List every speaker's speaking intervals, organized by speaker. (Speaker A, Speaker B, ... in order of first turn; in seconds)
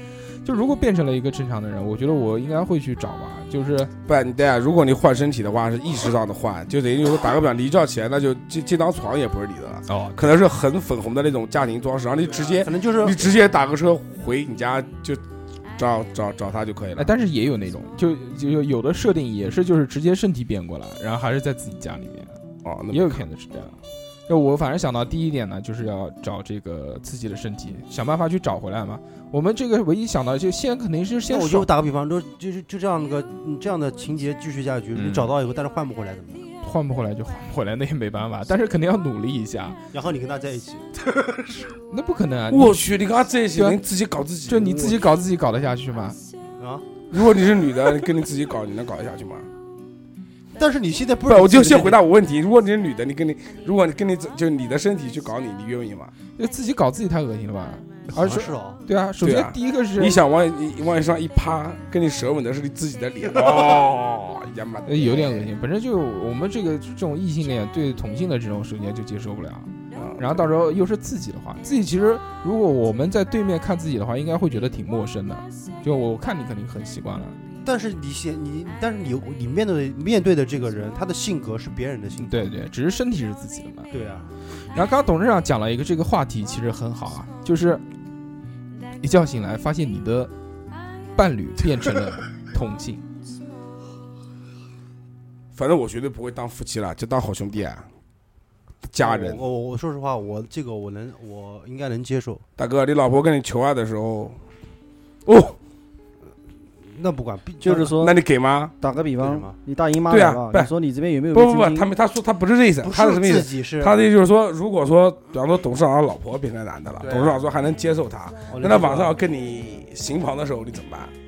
Speaker A: 0.4-3.9, 9.9-10.3, 17.0-22.4, 22.9-23.8, 24.3-31.7, 35.0-35.3, 36.6-39.8, 41.9-42.8, 43.6-43.8, 44.5-46.2, 56.4-60.2, 64.9-77.4, 82.2-83.9, 84.7-87.8, 89.0-90.3, 91.2-93.0
Speaker B: 4.1-15.2, 15.8-17.1, 22.6-23.2, 42.5-45.1, 47.1-49.5, 51.3-56.1, 59.2-65.5, 69.9-70.5, 95.5-97.9, 98.9-99.4, 102.6-104.4, 105.3-105.6, 108.0-108.7, 110.1-110.7, 111.3-121.1
Speaker C: 12.3-13.3, 31.3-36.5, 39.9-41.7, 46.6-46.9, 50.5-52.0, 58.1-58.8, 77.7-82.5, 83.9-84.3, 99.0-102.4, 106.8-108.0, 109.2-109.5, 112.8-114.0, 117.0-117.4, 118.5-119.2
Speaker D: 107.6-108.2, 108.8-111.9